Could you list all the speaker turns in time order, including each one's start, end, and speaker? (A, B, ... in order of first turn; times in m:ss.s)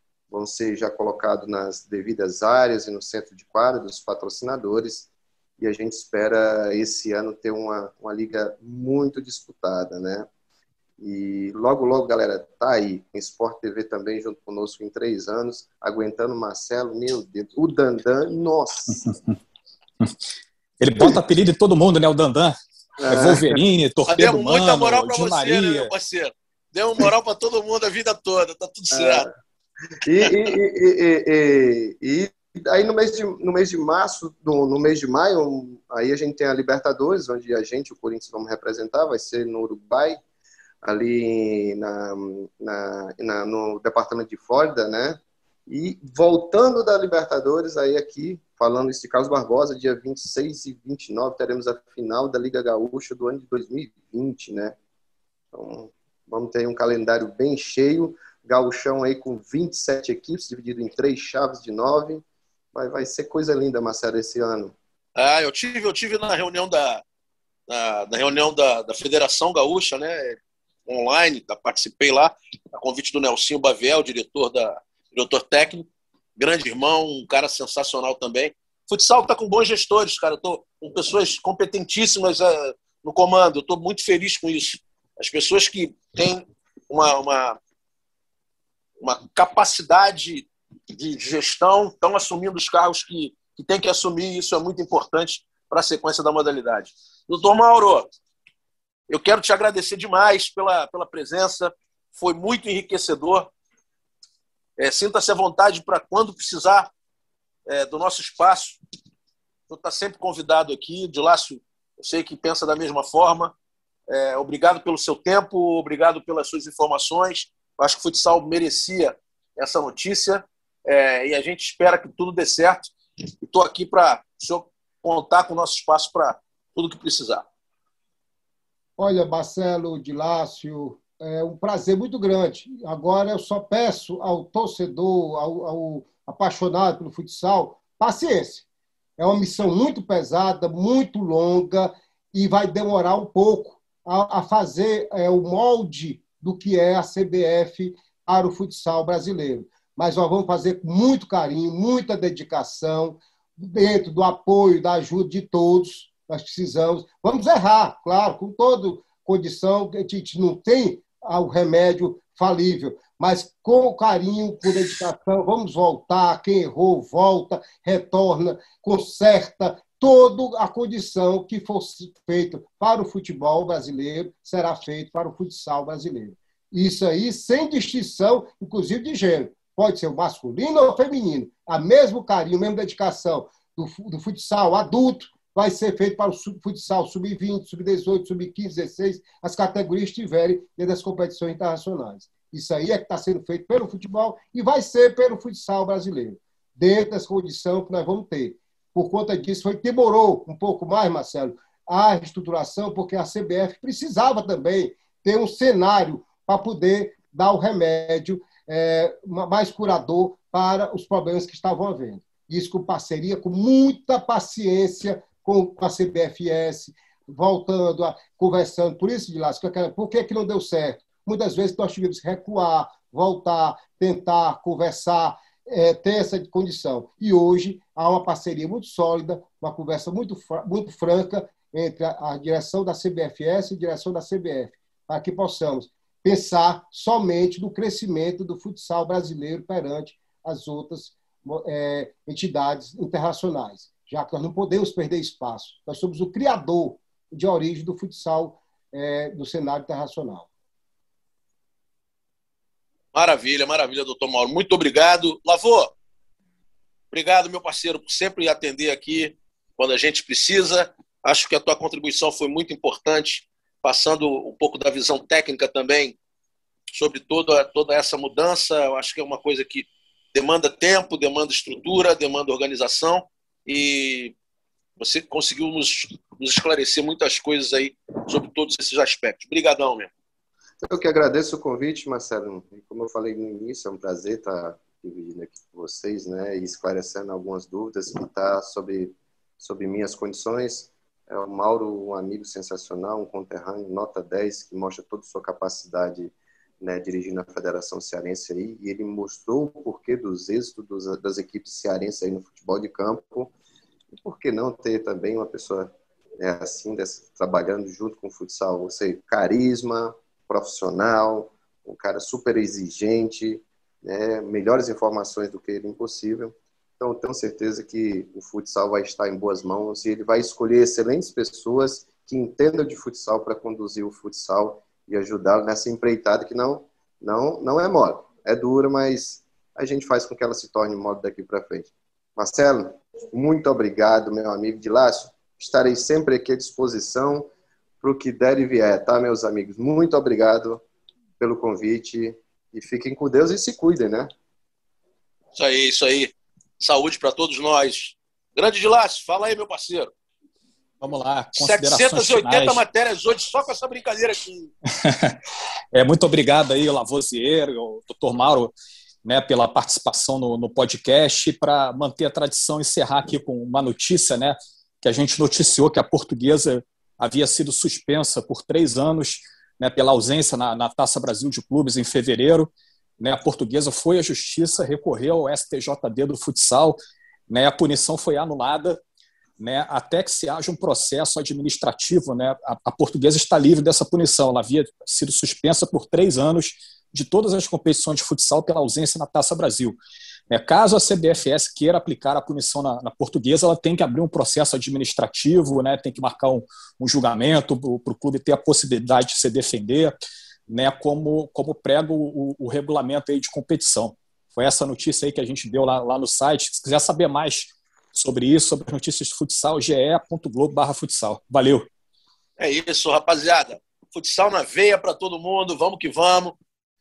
0:00.3-0:10.3 A
0:11.0-0:19.0 A
0:18.9-0:19.3 B
0:20.8-0:22.6 B
0:23.0-0:23.6 A
0:23.1-0:25.9 B
0:24.1-0:29.3 C
0:28.9-0:29.3 A
0:30.0-0:40.2 A
0:40.8-0:54.7 A
0:55.5-1:04.7 A
1:05.2-1:07.0 C
1:07.7-1:27.6 C
1:29.0-1:38.1 C
1:39.1-1:43.5 C
1:44.8-1:46.9 C
1:47.7-1:48.8 C
1:49.7-1:53.5 C
1:54.1-2:07.4 C
2:09.0-2:18.6 D
2:19.2-4:10.5 D
4:13.1-4:15.9 C
4:17.1-4:26.2 C
4:26.9-4:34.3 C
4:35.0-4:40.1 C
4:40.8-5:03.5 A
5:04.1-5:40.8 A
5:41.4-5:44.3 A
5:45.5-5:50.1 C
5:51.0-5:52.8 B
5:51.6-5:54.7 C
5:55.0-5:55.4 B
5:55.9-5:58.7 B
5:59.2-6:17.0 B
6:17.5-6:19.0 B
6:19.6-6:30.0 B
6:30.5-6:40.1 B
6:40.7-6:51.9 B
6:52.6-6:56.6 C